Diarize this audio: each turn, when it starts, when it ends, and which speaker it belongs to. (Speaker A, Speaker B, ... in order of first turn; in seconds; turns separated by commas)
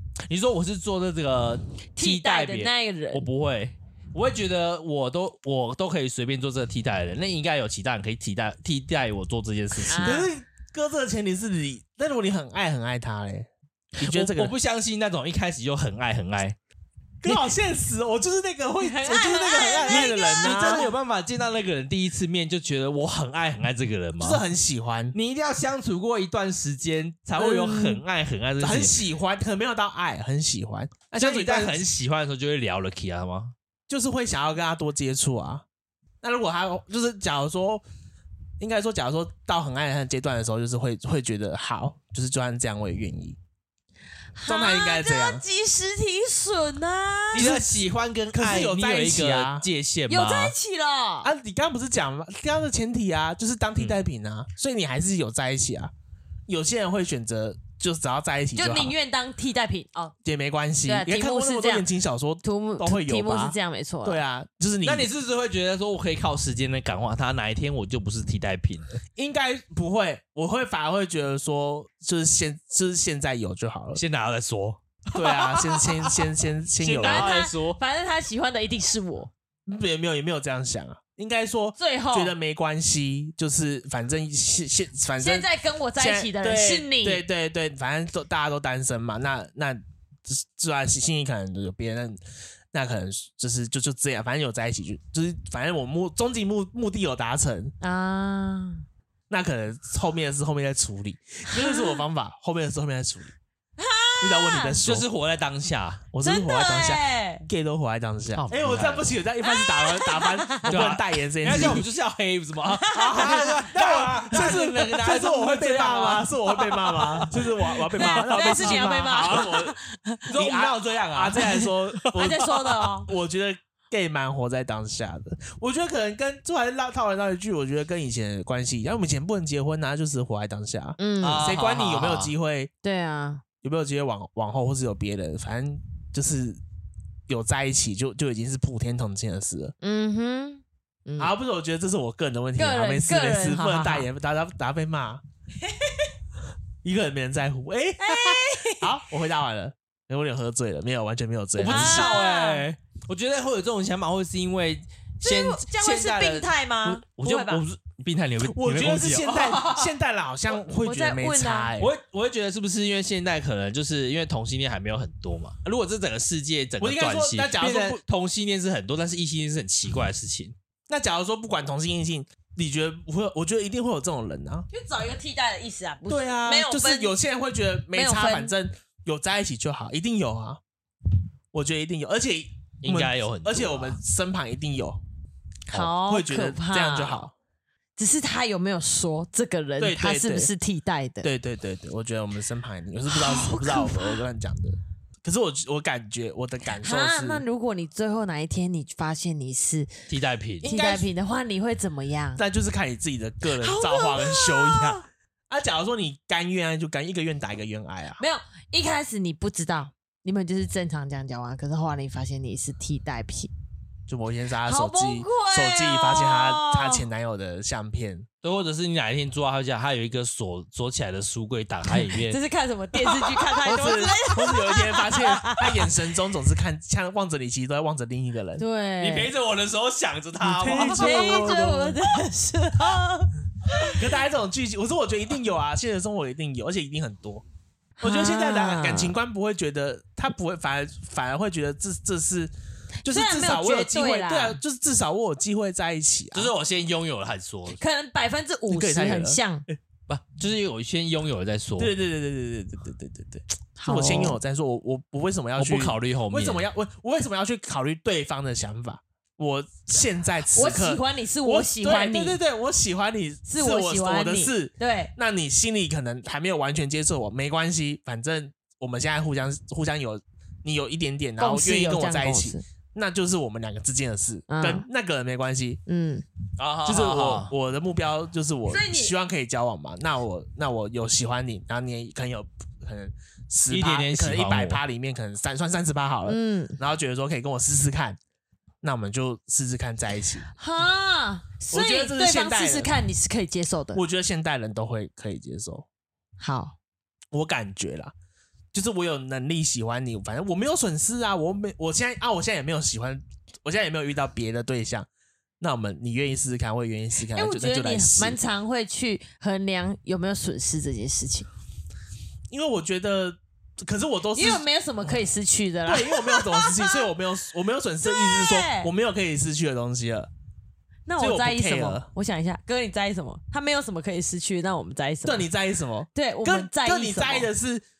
Speaker A: 0.3-10.2, Speaker B: 2.0-3.3, Speaker B: 9.9-10.3, Speaker C: 9.9-14.5, Speaker A: 14.0-16.6, Speaker C: 17.2-20.9, Speaker B: 18.8-20.9, Speaker A: 19.9-24.4, Speaker C: 24.2-25.2, Speaker A: 25.1-28.9, Speaker C: 27.4-28.0, Speaker C: 28.6-31.9, Speaker A: 31.2-33.5, Speaker C: 33.9-35.6, Speaker C: 36.2-37.8, Speaker C: 38.6-43.4, Speaker B: 44.4-47.6, Speaker C: 44.5-45.4, Speaker C: 47.3-47.8, Speaker A: 47.3-50.6, Speaker C: 48.3-49.7, Speaker B: 50.1-51.3, Speaker C: 51.2-55.9, Speaker C: 56.5-59.0, Speaker B: 58.6-60.1, Speaker C: 60.2-65.1, Speaker B: 60.9-61.9, Speaker B: 62.4-64.2, Speaker A: 64.8-69.0, Speaker C: 69.2-74.0, Speaker A: 74.0-77.8, Speaker C: 75.2-77.3, Speaker B: 77.0-79.3, Speaker C: 79.7-92.2, Speaker B: 81.8-82.3, Speaker B: 85.2-87.2, Speaker C: 92.7-97.7, Speaker B: 97.8-98.8, Speaker C: 99.3-103.3, Speaker B: 101.5-102.0, Speaker B: 103.8-104.8, Speaker C: 104.2-105.1, Speaker A: 104.8-106.0, Speaker C: 106.1-111.9, Speaker B: 106.2-107.5, Speaker A: 108.4-109.1, Speaker B: 109.4-110.8, Speaker A: 110.7-118.9, Speaker B: 112.7-113.5, Speaker C: 112.9-119.8, Speaker B: 118.0-120.2, Speaker A: 120.3-122.5, Speaker C: 120.3-122.5, Speaker B: 122.1-123.1, Speaker C: 123.0-132.7, Speaker B: 131.0-131.5, Speaker A: 131.2-132.3, Speaker B: 132.8-133.4, Speaker C: 133.6-136.6, Speaker C: 137.3-139.8, Speaker B: 139.8-141.3, Speaker C: 141.2-145.2, Speaker B: 142.6-144.1, Speaker B: 145.7-146.0, Speaker C: 146.8-152.1, Speaker B: 148.0-148.9, Speaker A: 151.6-159.9, Speaker B: 151.6-152.7, Speaker B: 155.2-157.6, Speaker C: 158.4-161.9, Speaker B: 160.7-161.7, Speaker A: 161.8-170.6, Speaker C: 166.8-168.0, Speaker C: 170.9-174.7, Speaker B: 174.7-177.1, Speaker C: 176.1-180.6, Speaker B: 177.9-178.5, Speaker C: 181.5-185.0, Speaker A: 182.8-184.0, Speaker B: 185.7-187.3, Speaker C: 186.0-187.3, Speaker B: 188.0-191.3, Speaker C: 189.8-190.5, Speaker C: 191.2-197.4, Speaker B: 193.1-194.2, Speaker B: 196.8-199.9, Speaker A: 200.1-200.7, Speaker C: 200.6-201.1, Speaker B: 200.6-202.4, Speaker C: 202.4-208.2, Speaker B: 203.6-205.0, Speaker B: 208.2-213.5, Speaker C: 214.1-218.3, Speaker B: 214.7-217.1, Speaker A: 218.4-222.4, Speaker B: 221.9-225.8, Speaker C: 223.6-228.6, Speaker B: 228.6-229.3, Speaker A: 229.0-231.6, Speaker C: 230.4-232.0, Speaker B: 230.7-234.0, Speaker C: 234.0-237.4, Speaker B: 238.0-239.2, Speaker C: 238.0-242.5, Speaker B: 243.0-244.6, Speaker C: 243.1-246.5, Speaker A: 246.3-247.8, Speaker B: 247.8-249.7, Speaker C: 248.7-249.4, Speaker A: 250.1-251.9, Speaker C: 251.8-275.8, Speaker B: 253.8-254.4, Speaker A: 255.6-256.6, Speaker B: 260.5-262.4, Speaker B: 263.5-265.1, Speaker B: 271.4-272.6, Speaker B: 274.5-274.9, Speaker B: 275.9-276.2, Speaker A: 276.6-277.5, Speaker C: 276.9-288.2, Speaker B: 278.7-279.1, Speaker A: 283.7-284.8, Speaker B: 286.3-286.8, Speaker C: 288.8-290.5, Speaker B: 290.6-294.0, Speaker C: 291.7-292.9, Speaker C: 293.9-295.9, Speaker B: 296.4-296.8, Speaker C: 297.3-298.1, Speaker C: 298.7-305.1, Speaker C: 305.6-308.4, Speaker B: 307.4-311.5, Speaker C: 312.5-314.6, Speaker B: 314.4-317.1, Speaker C: 315.9-320.3, Speaker B: 318.1-318.9, Speaker B: 321.1-325.5, Speaker C: 321.2-322.1, Speaker C: 325.2-327.8, Speaker B: 326.1-327.5